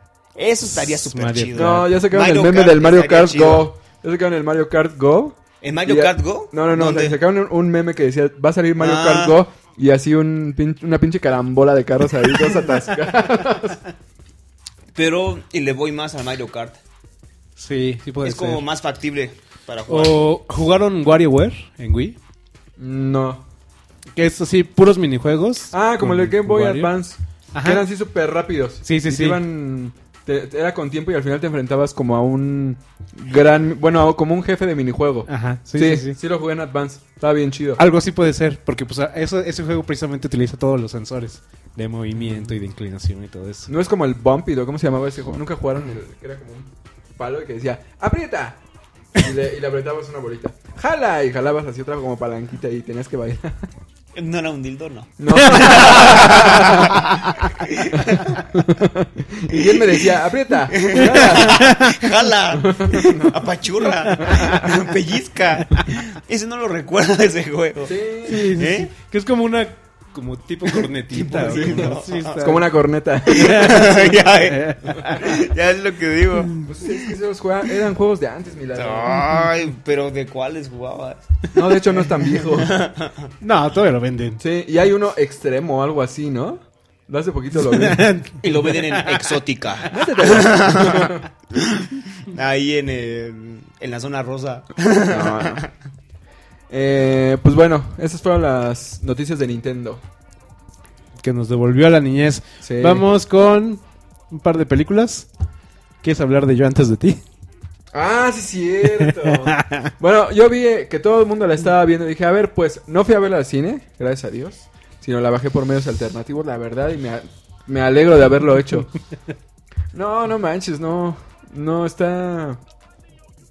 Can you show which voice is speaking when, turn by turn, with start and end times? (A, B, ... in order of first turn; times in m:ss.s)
0:00.3-0:03.7 A
0:00.8-0:01.9 B
0:01.5-0:13.8 C
0:05.6-0:07.2 A
0:08.8-0:09.4 A
0:14.9-0:16.8 A
0:17.6-0:18.6 B
0:18.2-0:20.2 A
0:19.9-0:22.2 B
0:22.8-0:23.4 C
0:24.1-0:26.9 B
0:25.7-0:37.8 C
0:27.5-0:27.8 B
0:28.8-0:29.4 B
0:35.3-0:36.2 B
0:37.8-0:43.7 B
0:42.2-0:42.5 C
0:43.7-0:48.6 C
0:49.2-0:53.6 C
0:54.1-0:58.4 A
0:55.2-0:57.0 C
0:55.4-0:56.3 B
0:58.5-1:01.7 C
1:00.7-1:08.9 A
1:01.0-1:02.0 B
1:02.5-1:03.5 C
1:04.2-1:04.5 B
1:04.2-1:04.5 C
1:07.8-1:08.5 C
1:08.2-1:12.7 B
1:10.7-1:12.4 A
1:11.5-1:13.9 C
1:13.3-1:15.4 B
1:13.3-1:16.6 A
1:16.6-1:19.2 C
1:18.7-1:21.3 A
1:21.5-1:22.7 C
1:22.6-1:23.2 A
1:23.4-1:24.4 B
1:24.4-1:28.0 C
1:27.6-1:29.3 B
1:28.4-1:35.7 A
1:29.9-1:31.2 C
1:35.1-1:35.6 C
1:36.7-1:40.0 C
1:41.2-1:45.3 B
1:42.6-1:43.0 C
1:46.0-1:47.2 B
1:47.9-1:58.9 C
1:49.0-1:49.9 B
1:59.9-2:02.6 C